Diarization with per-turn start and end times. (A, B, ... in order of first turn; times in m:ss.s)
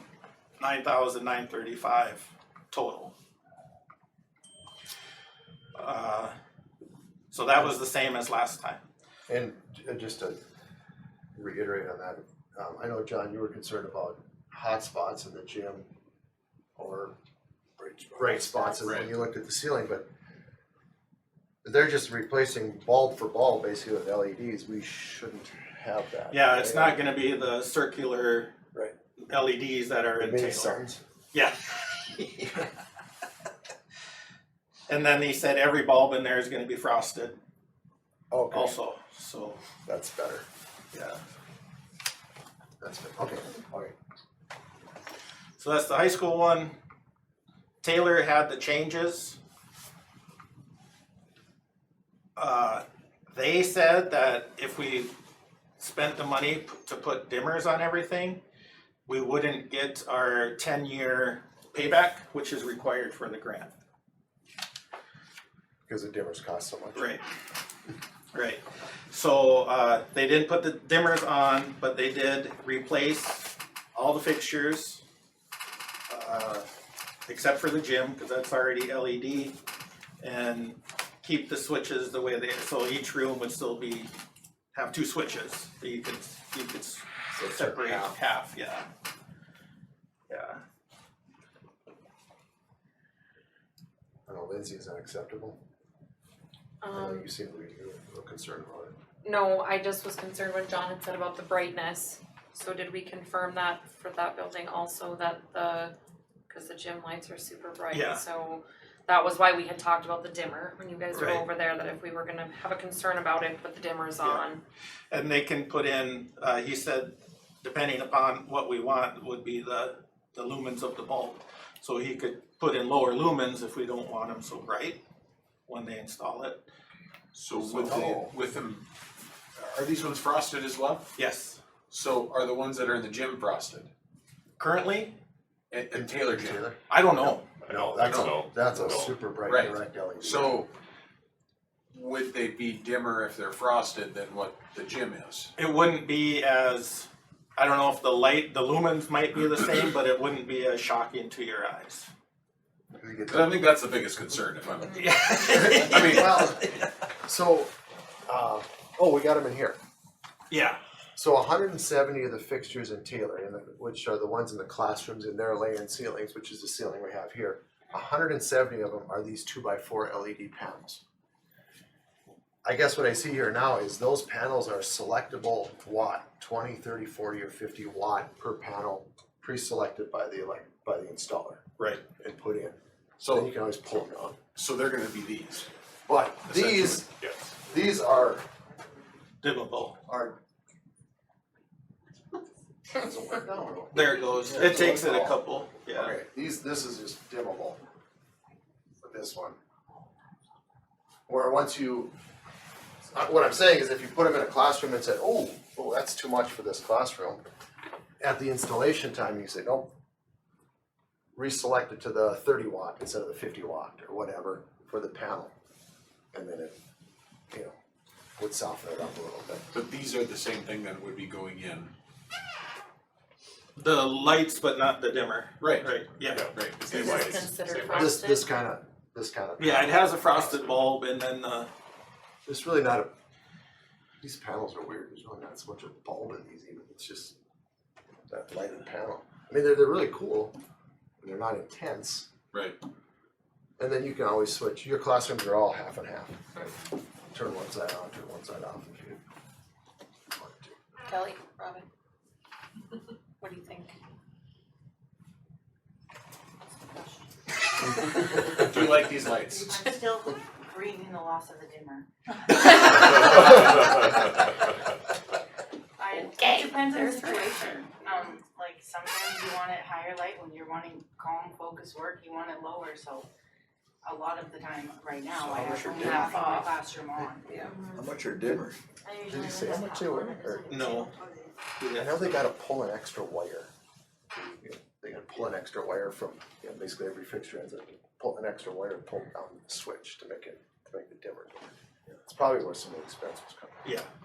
0:00.6-0:03.1 A
0:05.7-0:06.3 A
0:07.3-0:08.8 A
0:09.3-0:10.4 B
0:11.3-0:15.9 B
0:16.8-0:17.2 B
0:17.8-0:20.1 B
0:18.3-0:19.0 C
0:18.8-0:19.1 D
0:21.6-0:27.0 B
0:26.3-0:28.5 A
0:29.2-0:30.8 A
0:30.2-0:31.0 B
0:31.3-0:32.7 A
0:34.9-0:37.4 A
0:38.3-0:38.8 B
0:38.5-0:39.6 A
0:39.8-0:40.4 B
0:40.9-0:41.2 A
0:42.8-0:43.9 B
0:45.6-0:46.7 A
0:47.8-0:49.4 A
0:52.4-0:55.1 A
0:55.8-0:58.4 A
0:59.1-1:03.7 A
1:05.9-1:07.1 B
1:06.9-1:07.2 A
1:08.3-1:15.0 A
1:16.1-1:16.6 A
1:17.3-1:19.5 A
1:20.2-1:24.1 A
1:24.7-1:28.9 A
1:27.3-1:28.2 B
1:30.3-1:30.6 A
1:34.3-1:35.6 B
1:36.8-1:37.3 C
1:36.9-1:39.0 B
1:39.2-1:45.9 C
1:46.5-1:54.6 C
1:47.9-1:48.2 A
1:51.1-1:51.4 A
1:55.1-2:05.0 A
2:05.7-2:06.6 A
2:07.3-2:08.8 D
2:07.7-2:08.3 B
2:09.6-2:11.0 D
2:11.2-2:11.6 A
2:11.9-2:13.9 D
2:14.6-2:15.2 A
2:15.7-2:16.7 D
2:15.9-2:20.6 B
2:16.9-2:17.5 A
2:17.6-2:19.2 E
2:19.4-2:20.7 D
2:21.9-2:25.5 D
2:25.6-2:32.1 A
2:32.9-2:33.7 B
2:33.3-2:36.4 D
2:35.0-2:36.9 A
2:35.5-2:36.7 B
2:37.2-2:37.7 B
2:38.3-2:39.8 B
2:40.5-2:40.8 A
2:41.1-2:51.0 B
2:52.6-3:01.6 B
3:02.2-3:02.8 B
3:03.2-3:03.5 D
3:03.3-3:04.4 B
3:04.5-3:05.7 D
3:06.0-3:07.1 B
3:06.5-3:07.5 D
3:07.6-3:08.4 B
3:09.4-3:10.0 A
3:10.0-3:10.4 B
3:12.9-3:15.4 B
3:13.9-3:16.1 A
3:15.9-3:17.8 B
3:19.0-3:19.6 B
3:21.3-3:22.1 B
3:23.1-3:27.4 B
3:28.2-3:29.9 B
3:31.3-3:35.5 B
3:36.3-3:36.7 B
3:37.5-3:37.8 B
3:38.4-3:39.6 B
3:39.7-3:41.9 D
3:43.8-3:46.5 A
3:45.6-3:48.1 D
3:46.3-3:47.4 E
3:46.9-3:48.5 C
3:47.9-3:50.7 B
3:49.6-3:51.7 A
3:52.4-3:53.1 B
3:54.2-3:57.4 B
3:58.3-4:00.5 B
4:01.2-4:02.3 B
4:02.5-4:02.8 D
4:03.8-4:06.7 B
4:07.3-4:09.2 B
4:10.3-4:10.8 B
4:11.0-4:11.8 C
4:13.4-4:13.9 C
4:18.5-4:19.8 D
4:19.7-4:22.0 F
4:22.9-4:23.3 F
4:26.0-4:33.3 F
4:26.4-4:27.5 C
4:26.9-4:28.0 E
4:34.0-4:37.5 F
4:35.4-4:36.3 D
4:35.5-4:36.5 E
4:35.9-4:36.7 C
4:37.9-4:38.6 E
4:38.0-4:38.5 D
4:39.3-4:41.0 B
4:40.4-4:41.0 C
4:40.7-4:41.1 A
4:41.8-4:42.2 A
4:42.0-4:43.7 B
4:44.3-4:53.9 B